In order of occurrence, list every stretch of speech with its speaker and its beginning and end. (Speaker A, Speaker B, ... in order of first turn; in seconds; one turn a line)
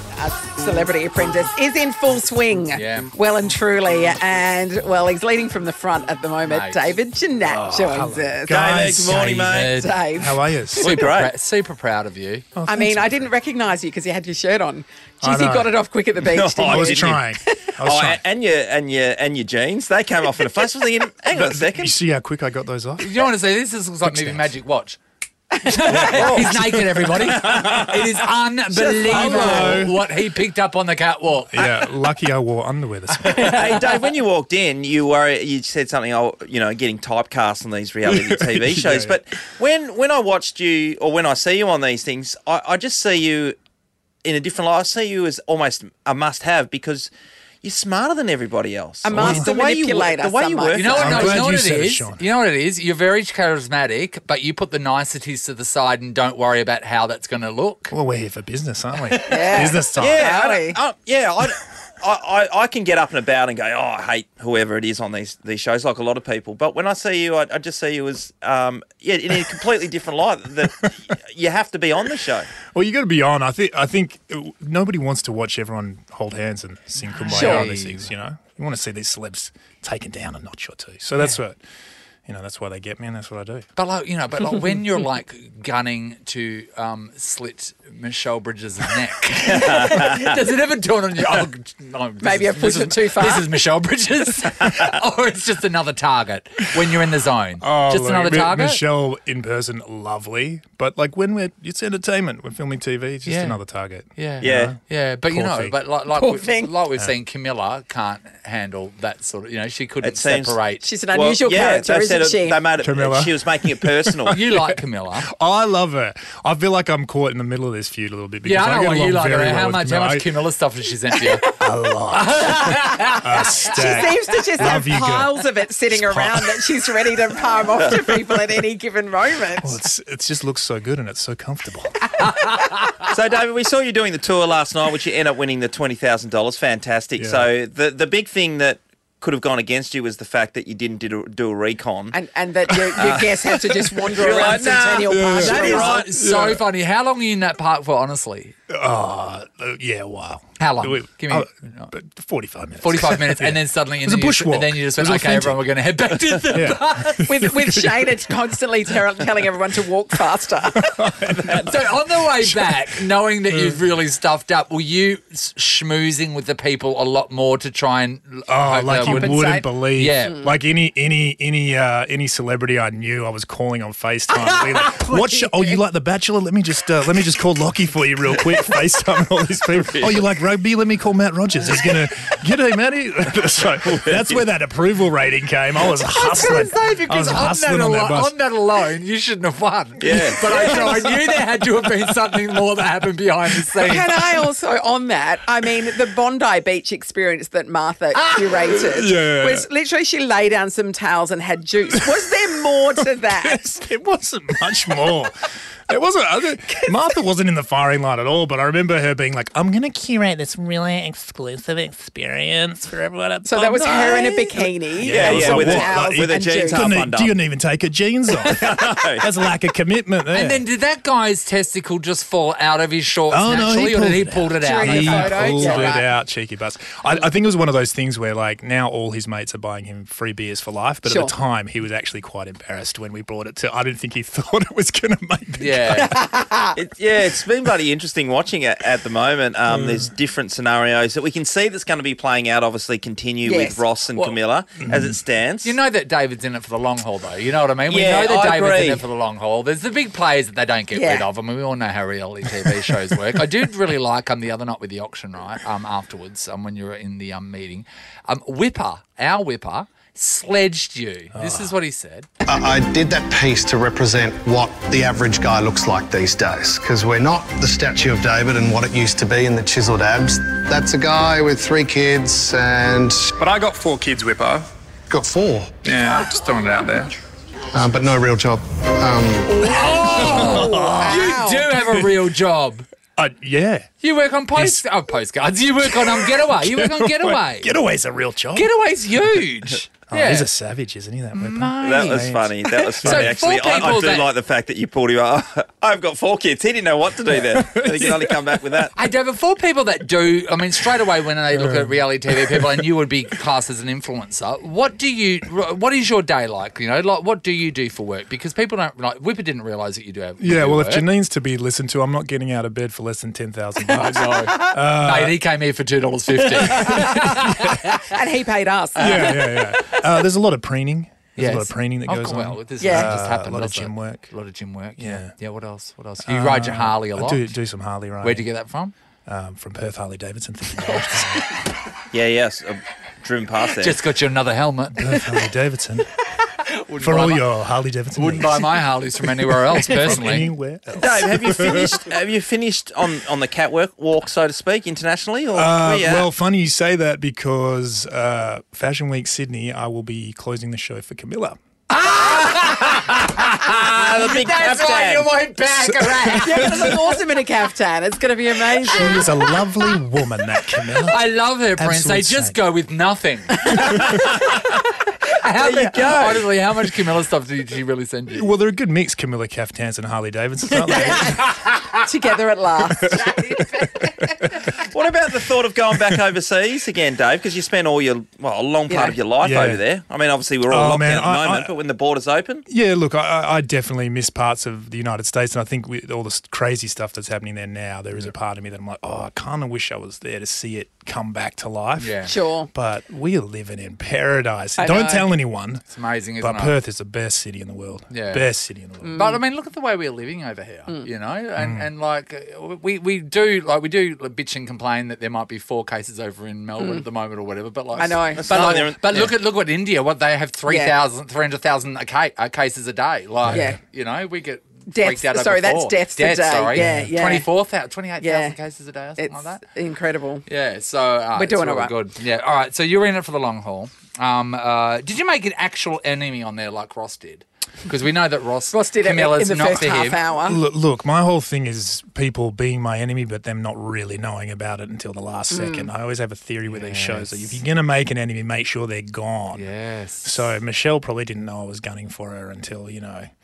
Speaker A: 0.1-8.8
Speaker B: 2.7-3.1
Speaker B: 6.4-6.9
Speaker C: 7.5-9.6
Speaker D: 8.5-9.8
Speaker B: 9.4-10.0
Speaker A: 9.7-10.5
Speaker C: 10.1-10.9
Speaker D: 10.8-11.3
Speaker B: 10.8-12.4
Speaker C: 12.6-13.2
Speaker A: 12.7-17.6
Speaker C: 15.2-15.8
Speaker D: 16.2-17.2
Speaker C: 16.6-18.2
Speaker D: 17.8-21.9
Speaker C: 21.3-23.3
Speaker B: 23.0-25.0
Speaker C: 24.0-24.5
Speaker A: 25.5-26.2
Speaker B: 25.6-31.9
Speaker C: 25.9-26.8
Speaker D: 26.1-26.5
Speaker C: 27.3-27.9
Speaker D: 27.4-27.7
Speaker D: 28.7-29.8
Speaker C: 29.1-30.0
Speaker C: 31.5-33.8
Speaker D: 33.3-43.6
Speaker C: 38.0-39.2
Speaker D: 44.2-47.1
Speaker D: 47.6-51.4
Speaker A: 49.0-51.4
Speaker C: 49.1-49.5
Speaker B: 50.7-57.9
Speaker C: 50.9-52.2
Speaker C: 57.9-60.2
Speaker A: 59.2-60.8
Speaker D: 59.9-72.5
Speaker C: 72.7-81.6
Speaker B: 77.0-78.1
Speaker A: 77.3-77.7
Speaker C: 82.2-83.7
Speaker B: 83.8-98.8
Speaker D: 89.5-90.1
Speaker A: 92.2-93.5
Speaker C: 97.6-105.8
Speaker B: 103.2-103.6
Speaker B: 104.2-110.8
Speaker D: 104.4-104.7
Speaker A: 106.1-106.7
Speaker D: 110.0-110.6
Speaker A: 110.8-112.6
Speaker D: 111.1-114.4
Speaker C: 112.8-114.8
Speaker B: 114.3-115.3
Speaker C: 115.3-120.3
Speaker B: 118.4-121.4
Speaker C: 121.5-126.7
Speaker B: 122.2-123.7
Speaker A: 123.5-129.8
Speaker C: 129.6-132.1
Speaker B: 132.4-132.9
Speaker D: 133.0-142.2
Speaker C: 137.2-137.5
Speaker A: 142.1-146.0
Speaker C: 142.8-144.2
Speaker D: 143.0-143.3
Speaker D: 144.1-146.1
Speaker C: 145.0-146.6
Speaker B: 145.3-148.5
Speaker C: 148.7-155.7
Speaker B: 150.6-151.9
Speaker B: 152.8-157.3
Speaker C: 156.4-158.2
Speaker A: 157.2-160.9
Speaker C: 160.7-162.9
Speaker B: 161.5-170.4
Speaker C: 163.5-163.8
Speaker C: 168.5-188.3
Speaker A: 169.0-169.7
Speaker B: 174.3-175.8
Speaker D: 179.8-180.2
Speaker D: 183.8-184.4
Speaker B: 186.1-194.2
Speaker D: 190.0-190.5
Speaker A: 190.6-190.9
Speaker A: 193.8-203.7
Speaker C: 198.4-199.7
Speaker C: 201.9-202.2
Speaker C: 203.2-205.3
Speaker C: 205.9-220.6
Speaker A: 213.4-216.9
Speaker D: 215.0-217.4
Speaker D: 218.4-219.2
Speaker B: 220.3-226.0
Speaker C: 223.3-236.2
Speaker A: 224.6-226.1
Speaker A: 231.0-231.3
Speaker B: 235.6-236.1
Speaker A: 236.0-236.8
Speaker D: 236.8-245.8
Speaker C: 239.7-240.1
Speaker A: 243.4-243.8
Speaker C: 244.8-245.2
Speaker B: 245.6-262.3
Speaker D: 247.9-249.1
Speaker A: 250.9-251.3
Speaker C: 261.3-261.7
Speaker E: 262.4-273.2
Speaker F: 273.4-274.7
Speaker E: 275.1-275.8
Speaker F: 275.8-277.1
Speaker E: 277.7-280.3
Speaker B: 279.5-282.8
Speaker C: 280.1-282.1
Speaker A: 280.4-281.7
Speaker C: 283.2-283.9
Speaker B: 284.0-287.7
Speaker C: 284.5-284.8
Speaker C: 285.8-289.4
Speaker B: 288.5-290.5
Speaker C: 290.0-293.4
Speaker B: 291.3-292.4
Speaker D: 291.8-298.9
Speaker B: 293.0-294.3
Speaker C: 297.3-298.8
Speaker B: 298.9-311.1
Speaker C: 301.5-302.9
Speaker C: 310.4-315.4
Speaker B: 313.9-318.0
Speaker C: 316.5-317.6
Speaker A: 317.9-319.4
Speaker B: 319.0-319.8
Speaker C: 319.0-324.3
Speaker B: 321.4-327.5
Speaker A: 322.8-323.1
Speaker C: 325.0-325.3
Speaker C: 326.2-328.5
Speaker B: 328.2-328.9
Speaker C: 329.2-331.5
Speaker D: 332.1-334.0
Speaker B: 333.8-335.2
Speaker C: 335.0-336.1
Speaker B: 336.9-337.5
Speaker C: 337.0-341.9
Speaker B: 338.1-340.5
Speaker D: 341.0-346.3
Speaker C: 345.5-351.6
Speaker B: 351.9-357.0
Speaker D: 353.6-355.3
Speaker C: 355.8-357.1
Speaker A: 356.4-359.3
Speaker C: 358.8-361.2
Speaker B: 361.1-368.5
Speaker C: 361.8-362.6
Speaker A: 363.6-364.2
Speaker C: 363.7-364.4
Speaker A: 365.6-366.3
Speaker D: 366.0-366.4
Speaker C: 368.3-371.5
Speaker A: 370.9-371.4
Speaker B: 370.9-371.9
Speaker A: 372.0-373.3
Speaker C: 372.9-373.4
Speaker B: 373.1-374.8
Speaker D: 374.7-382.6
Speaker A: 378.9-379.2
Speaker C: 379.4-379.8
Speaker C: 380.7-381.8
Speaker C: 382.7-395.9
Speaker B: 392.0-392.3
Speaker A: 392.2-392.7
Speaker A: 394.8-395.3
Speaker B: 395.9-396.8
Speaker C: 396.4-399.2
Speaker B: 398.1-398.6
Speaker A: 399.0-399.4
Speaker B: 399.1-419.6
Speaker C: 401.6-401.9
Speaker A: 406.8-407.0
Speaker A: 407.9-408.5
Speaker D: 408.4-409.4
Speaker A: 410.7-411.0
Speaker C: 413.4-413.8
Speaker A: 413.5-413.8
Speaker A: 414.9-417.5
Speaker C: 416.8-417.1
Speaker A: 418.2-418.6
Speaker A: 419.2-420.4
Speaker B: 420.4-430.2
Speaker A: 421.3-421.9
Speaker A: 428.7-430.6
Speaker C: 430.4-439.7
Speaker A: 435.5-435.9
Speaker B: 436.6-437.6
Speaker B: 439.5-440.5
Speaker C: 440.2-443.3